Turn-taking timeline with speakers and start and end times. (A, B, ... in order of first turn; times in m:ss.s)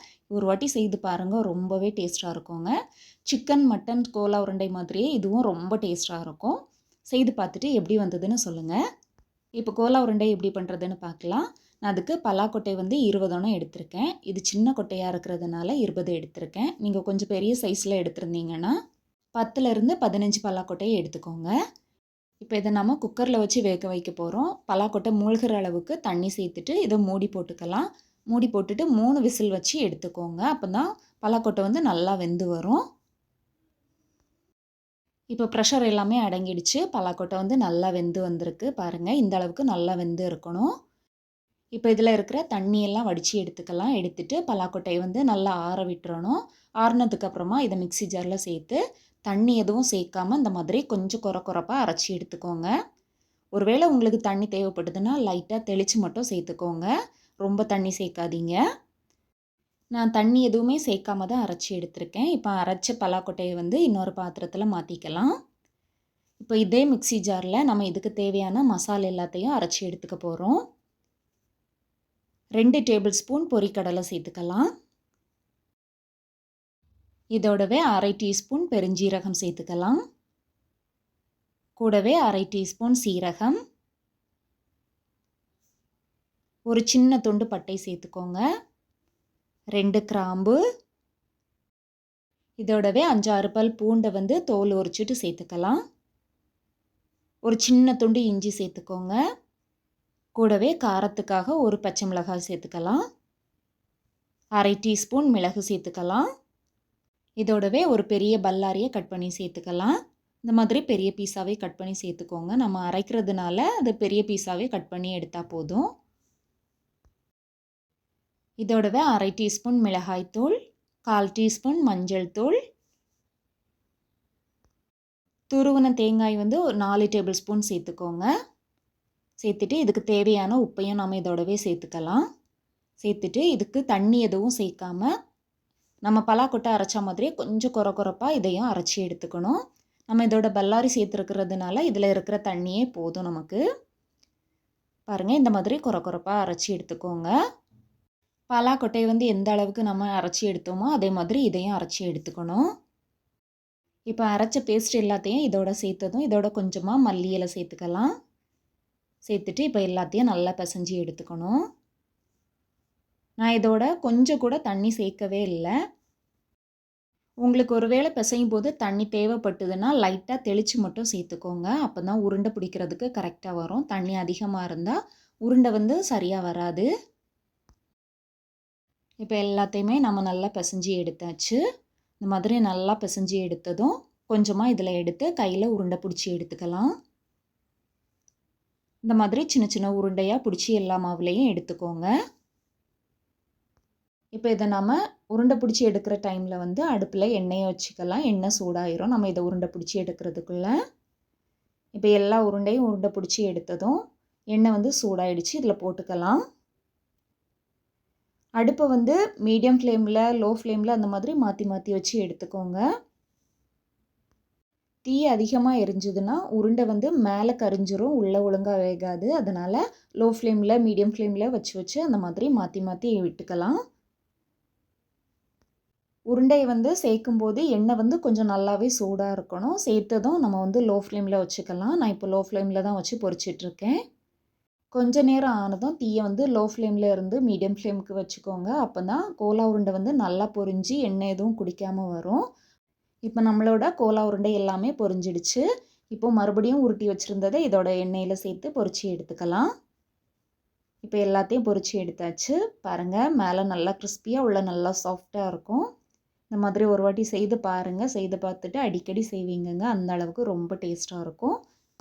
0:00.3-0:02.7 A
0:03.3-0:06.6 A
0:07.1-0:08.8 A
0:09.6-0:18.7 A
0:19.4-0:21.5 A
0:22.4-0:32.8 A
0:35.3-0:40.7 A
0:41.8-0:52.7 A
0:53.6-0:56.9 A
0:57.4-0:58.6 A
1:00.0-1:05.3 A
1:06.4-1:10.6 A
1:12.6-1:14.6 A
1:17.4-1:20.0 A
1:21.8-1:23.6 A
1:26.7-1:28.4 A
1:29.7-1:30.6 A
1:32.6-1:35.8 A
1:37.5-1:39.2 A
1:40.4-1:43.0 A
1:44.6-1:46.2 A
1:47.4-1:49.9 A
1:50.4-1:55.8 A
1:58.6-2:00.5 A
2:01.1-2:02.5 A
2:05.5-2:08.3 A
2:09.4-2:12.2 A
2:13.0-2:15.1 A
2:16.0-2:19.6 A
2:20.1-2:23.6 A
2:25.1-2:27.3 A
2:28.5-2:32.6 A
2:34.1-2:38.1 A
2:39.3-2:41.6 A
2:43.4-2:45.7 A
2:47.4-2:56.9 A
2:59.2-3:01.6 A
3:02.2-3:06.9 A
3:09.1-3:12.1 A
3:14.4-3:20.7 A
3:22.0-3:24.0 A
3:24.5-3:26.4 A
3:28.6-3:32.8 A
3:35.1-3:43.8 A
3:46.3-3:54.0 A
3:54.9-4:02.4 A
4:03.3-4:09.6 A
4:11.0-4:15.8 A
4:16.5-4:21.5 A